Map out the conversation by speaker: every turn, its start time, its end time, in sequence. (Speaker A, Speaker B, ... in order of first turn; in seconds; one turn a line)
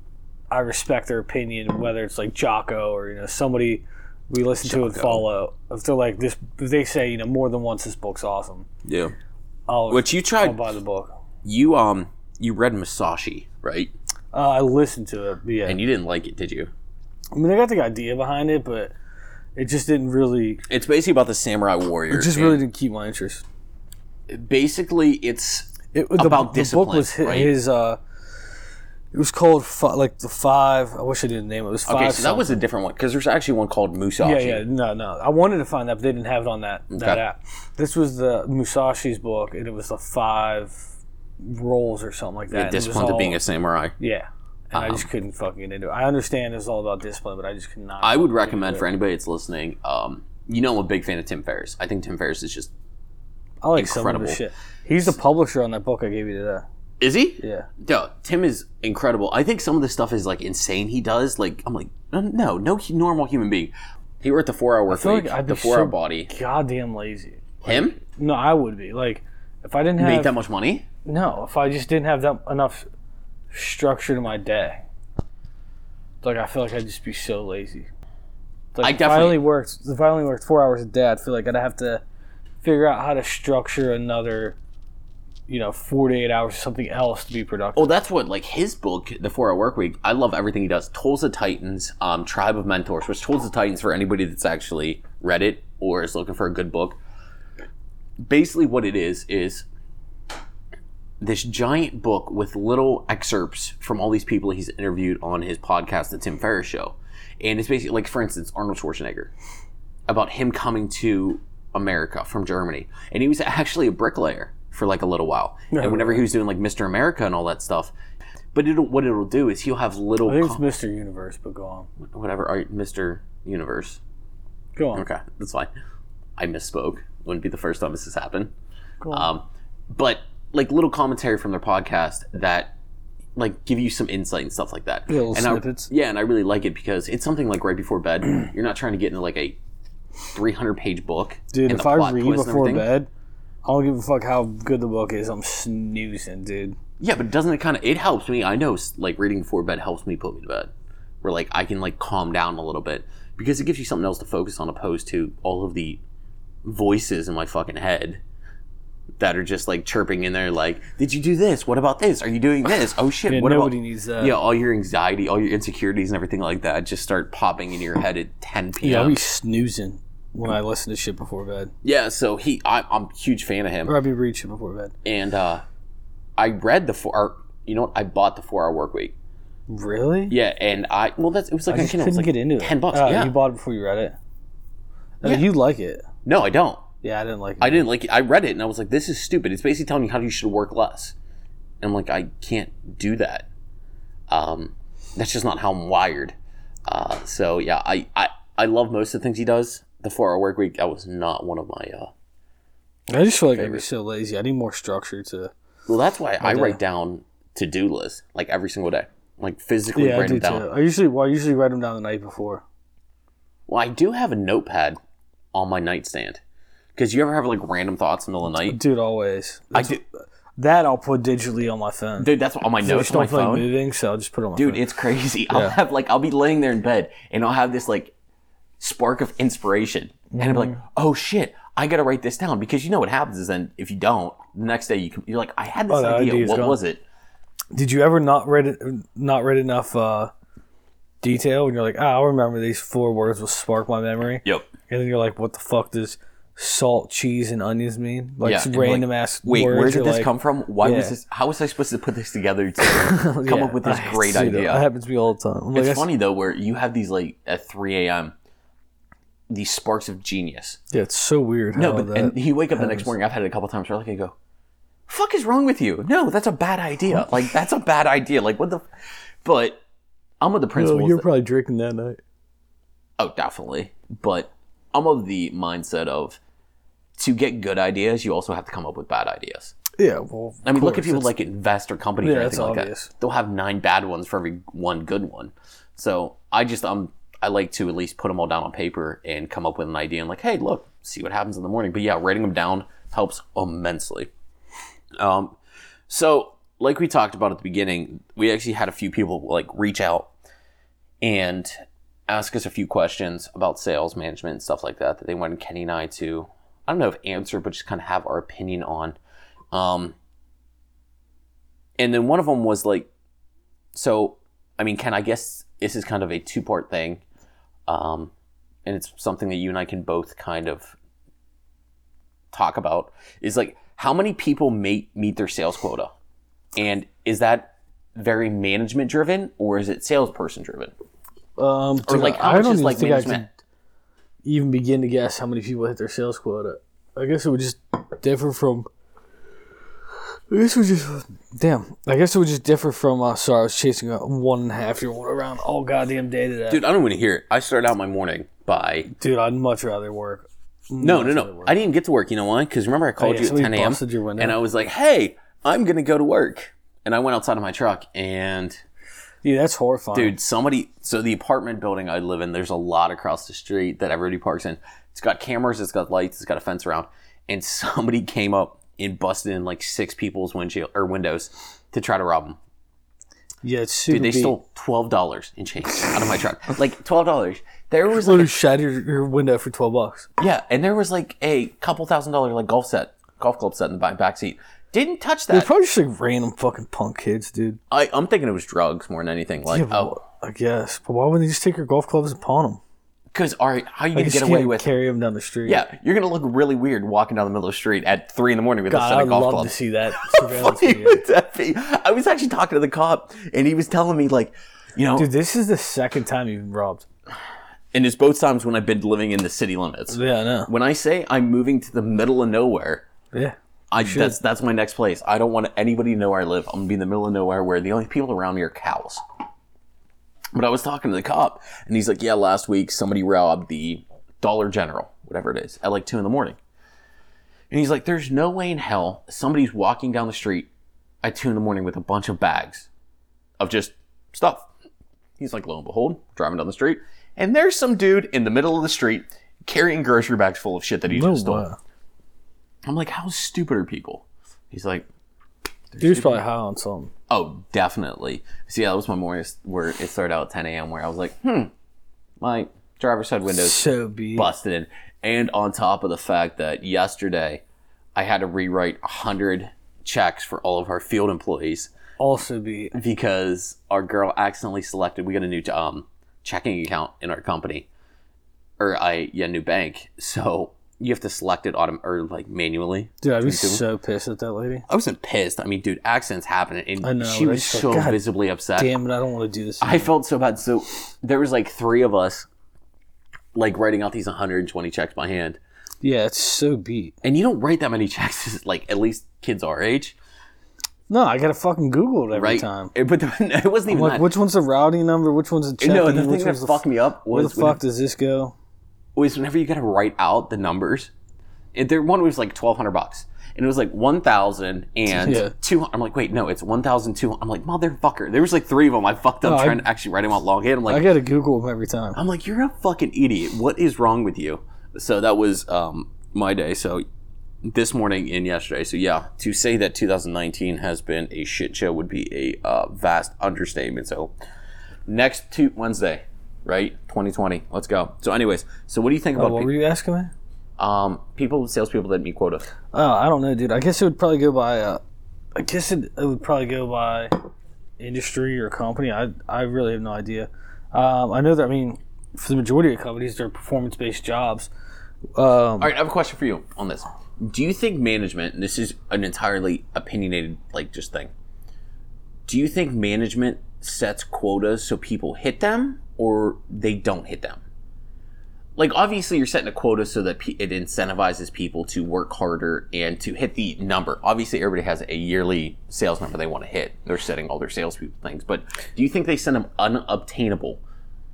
Speaker A: 0.5-8.7
Speaker B: 4.6-5.2
Speaker B: 8.8-9.1
Speaker A: 9.7-11.1
Speaker B: 9.9-10.7
Speaker B: 11.4-13.9
Speaker A: 14.3-15.8
Speaker B: 15.6-16.7
Speaker A: 17.3-18.9
Speaker A: 19.6-20.6
Speaker B: 20.7-22.6
Speaker A: 22.1-23.4
Speaker B: 24.3-27.5
Speaker A: 25.9-28.0
Speaker A: 29.1-32.6
Speaker B: 31.9-34.6
Speaker A: 34.2-43.4
Speaker B: 36.9-37.2
Speaker B: 42.5-43.9
Speaker A: 44.0-48.8
Speaker B: 44.7-45.0
Speaker B: 48.0-52.7
Speaker A: 53.6-56.6
Speaker B: 53.8-54.4
Speaker B: 57.0-66.3
Speaker A: 57.4-57.7
Speaker A: 64.9-70.3
Speaker B: 67.6-68.0
Speaker B: 70.0-70.8
Speaker A: 71.0-72.9
Speaker A: 73.5-74.8
Speaker A: 76.2-77.9
Speaker A: 78.7-82.0
Speaker B: 78.8-79.4
Speaker A: 82.6-84.6
Speaker A: 85.5-87.9
Speaker B: 87.7-97.0
Speaker B: 98.2-99.7
Speaker B: 101.2-109.3
Speaker B: 110.1-117.9
Speaker A: 115.7-116.2
Speaker B: 118.5-120.6
Speaker A: 120.2-121.9
Speaker B: 122.0-124.0
Speaker A: 124.8-125.1
Speaker B: 124.9-125.7
Speaker B: 126.4-128.5
Speaker B: 129.1-132.7
Speaker B: 133.4-139.6
Speaker A: 135.1-135.9
Speaker B: 140.3-142.9
Speaker A: 141.5-143.1
Speaker A: 143.6-146.8
Speaker B: 147.0-150.7
Speaker B: 151.2-156.0
Speaker B: 156.6-158.2
Speaker B: 159.2-169.2
Speaker A: 163.3-164.3
Speaker A: 168.8-171.7
Speaker B: 171.8-173.9
Speaker A: 173.9-174.9
Speaker B: 175.0-175.6
Speaker B: 176.4-179.1
Speaker A: 179.7-180.3
Speaker B: 180.3-183.3
Speaker A: 181.7-184.2
Speaker A: 185.2-186.0
Speaker B: 185.2-185.5
Speaker B: 186.2-186.8
Speaker A: 187.0-187.9
Speaker B: 187.6-191.1
Speaker B: 191.8-193.5
Speaker B: 194.3-196.3
Speaker B: 196.9-202.1
Speaker A: 203.1-205.5
Speaker B: 203.5-203.9
Speaker B: 205.9-210.7
Speaker A: 206.4-206.8
Speaker A: 209.9-212.6
Speaker B: 213.7-215.0
Speaker B: 215.5-216.4
Speaker B: 216.9-218.8
Speaker A: 218.6-220.0
Speaker B: 219.7-220.0
Speaker A: 220.6-222.3
Speaker B: 222.2-223.7
Speaker A: 222.8-224.8
Speaker B: 224.6-228.1
Speaker A: 225.5-225.8
Speaker B: 228.8-237.0
Speaker A: 230.3-230.8
Speaker A: 235.9-236.8
Speaker A: 237.7-240.3
Speaker A: 241.2-251.1
Speaker B: 248.4-254.9
Speaker A: 252.8-256.1
Speaker B: 255.7-258.4
Speaker B: 259.5-260.8
Speaker A: 260.9-263.1
Speaker B: 261.8-264.4
Speaker B: 265.1-268.8
Speaker B: 269.4-269.8
Speaker B: 270.4-271.2
Speaker A: 270.7-272.2
Speaker B: 273.2-276.4
Speaker B: 277.2-279.7
Speaker A: 279.9-281.3
Speaker B: 280.6-294.3
Speaker A: 282.2-283.1
Speaker B: 295.2-295.6
Speaker B: 296.1-300.3
Speaker B: 301.2-301.7
Speaker B: 302.3-309.2
Speaker B: 309.7-310.1
Speaker B: 312.0-313.1
Speaker B: 313.9-317.2
Speaker B: 317.9-318.3
Speaker B: 318.9-320.9
Speaker B: 322.5-326.1
Speaker B: 326.8-330.9
Speaker A: 331.6-333.5
Speaker B: 332.0-333.4
Speaker A: 334.4-338.9
Speaker A: 340.5-346.8
Speaker B: 346.7-349.1
Speaker A: 349.1-351.7
Speaker B: 351.0-358.8
Speaker A: 353.2-354.6
Speaker A: 359.4-360.4
Speaker B: 360.1-372.6
Speaker A: 373.6-374.5
Speaker B: 374.1-378.5
Speaker A: 378.1-380.3
Speaker B: 380.4-385.7
Speaker A: 385.5-387.8
Speaker B: 387.9-390.2
Speaker A: 389.7-392.8
Speaker B: 393.3-394.9
Speaker A: 394.1-395.9
Speaker B: 395.6-405.3
Speaker A: 398.9-401.2
Speaker A: 405.2-407.1
Speaker B: 407.9-413.1
Speaker A: 410.1-410.7
Speaker A: 413.3-414.4
Speaker B: 413.9-419.2
Speaker B: 420.5-426.6
Speaker B: 427.7-430.7
Speaker B: 431.2-432.9
Speaker B: 433.6-434.7
Speaker B: 435.4-441.6
Speaker A: 441.1-441.8
Speaker B: 442.9-445.1
Speaker B: 445.9-446.4
Speaker A: 446.0-447.1
Speaker B: 447.3-451.7
Speaker B: 452.4-457.6
Speaker A: 453.5-454.5
Speaker B: 458.1-461.9
Speaker A: 462.2-462.9
Speaker B: 462.9-467.9
Speaker B: 468.8-473.8
Speaker A: 473.2-474.9
Speaker B: 474.9-478.9
Speaker A: 477.0-478.2
Speaker A: 478.8-480.1
Speaker B: 479.8-482.5
Speaker B: 483.5-485.6
Speaker A: 486.0-487.1
Speaker B: 487.2-490.1
Speaker A: 491.1-492.9
Speaker B: 492.3-494.3
Speaker A: 493.9-498.5
Speaker B: 495.8-497.8
Speaker B: 499.1-501.1
Speaker B: 501.7-511.1
Speaker A: 505.1-505.5
Speaker A: 509.4-509.9
Speaker A: 510.9-512.2
Speaker B: 512.1-517.0
Speaker B: 517.6-524.3
Speaker B: 525.1-529.7
Speaker A: 529.4-530.3
Speaker B: 530.8-532.7
Speaker A: 532.9-535.0
Speaker A: 535.5-537.3
Speaker A: 538.0-544.7
Speaker A: 545.4-545.9
Speaker B: 545.8-551.3
Speaker B: 552.5-557.6
Speaker B: 558.8-570.8